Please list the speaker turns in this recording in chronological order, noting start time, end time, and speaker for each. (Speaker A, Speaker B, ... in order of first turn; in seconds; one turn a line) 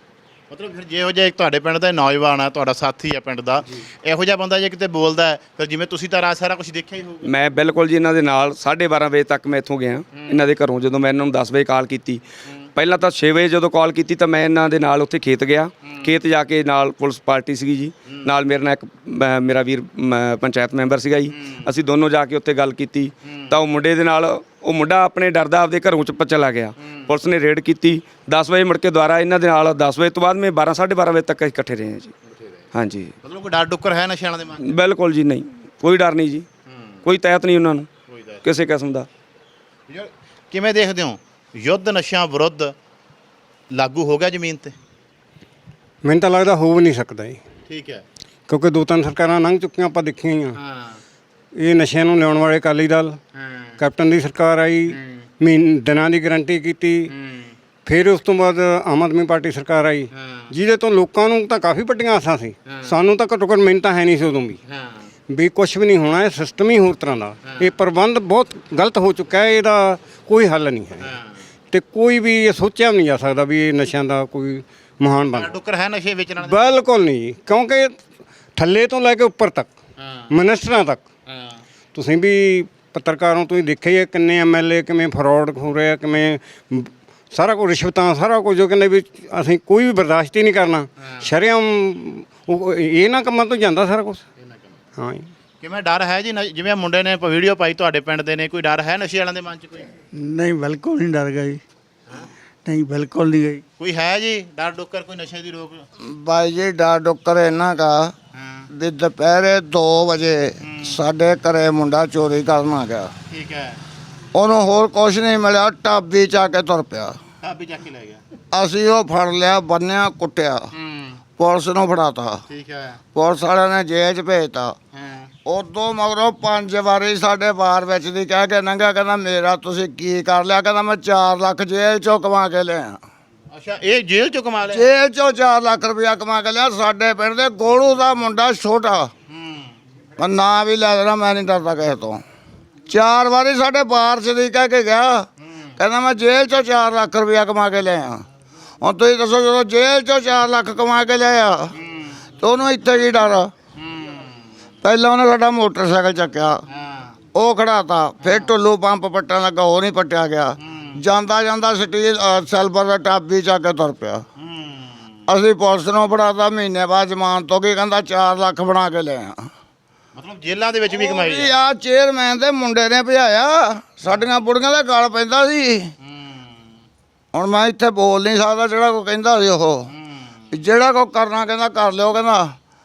Speaker A: 0.5-7.3
Speaker B: 7.2-12.2
Speaker A: 10.1-10.4
Speaker B: 12.8-32.1
Speaker A: 15.8-16.1
Speaker A: 21.3-21.7
Speaker A: 23.2-23.6
Speaker A: 26.8-27.1
Speaker A: 32.3-32.7
Speaker B: 32.7-33.1
Speaker A: 33.2-34.7
Speaker B: 34.6-36.5
Speaker A: 36.7-37.0
Speaker B: 37.0-37.9
Speaker A: 38.1-38.4
Speaker B: 38.4-39.1
Speaker A: 39.9-42.7
Speaker A: 43.7-44.7
Speaker C: 46.0-47.4
Speaker A: 47.7-48.0
Speaker C: 48.5-50.6
Speaker A: 50.6-51.0
Speaker C: 51.6-53.2
Speaker A: 53.4-53.8
Speaker C: 53.8-57.1
Speaker A: 54.9-55.2
Speaker A: 57.1-57.5
Speaker C: 57.9-64.6
Speaker A: 60.1-60.5
Speaker A: 64.7-65.1
Speaker C: 65.3-71.1
Speaker A: 71.0-71.3
Speaker C: 71.7-75.5
Speaker A: 75.3-76.8
Speaker C: 76.4-78.0
Speaker C: 78.6-79.7
Speaker A: 80.0-80.3
Speaker C: 80.3-81.0
Speaker A: 81.3-81.6
Speaker C: 81.9-94.2
Speaker A: 91.0-91.3
Speaker A: 94.4-94.8
Speaker C: 95.0-95.3
Speaker A: 95.6-99.9
Speaker D: 100.1-101.6
Speaker D: 102.7-103.6
Speaker A: 103.8-105.8
Speaker E: 106.0-108.1
Speaker A: 108.4-108.7
Speaker E: 108.7-113.1
Speaker A: 110.7-111.0
Speaker A: 113.3-113.8
Speaker E: 114.3-117.2
Speaker A: 117.4-118.2
Speaker E: 118.5-120.7
Speaker A: 120.8-121.2
Speaker E: 121.4-122.4
Speaker A: 122.5-123.0
Speaker E: 123.2-124.8
Speaker A: 124.9-125.3
Speaker E: 125.5-133.0
Speaker A: 133.5-134.8
Speaker E: 134.7-139.1
Speaker A: 139.3-139.8
Speaker E: 140.2-142.2
Speaker E: 142.9-145.3
Speaker A: 145.4-145.7
Speaker E: 145.8-148.2
Speaker E: 148.8-151.7
Speaker A: 151.8-152.2
Speaker E: 152.4-153.5
Speaker A: 153.8-154.4
Speaker E: 154.8-156.6
Speaker A: 156.7-157.2
Speaker E: 157.3-164.2
Speaker A: 158.2-158.5
Speaker A: 160.6-161.0
Speaker A: 164.4-165.1
Speaker E: 165.3-169.5
Speaker A: 170.2-171.5
Speaker E: 170.9-175.9
Speaker A: 176.0-176.6
Speaker E: 177.3-179.9
Speaker A: 179.9-180.3
Speaker E: 180.5-182.6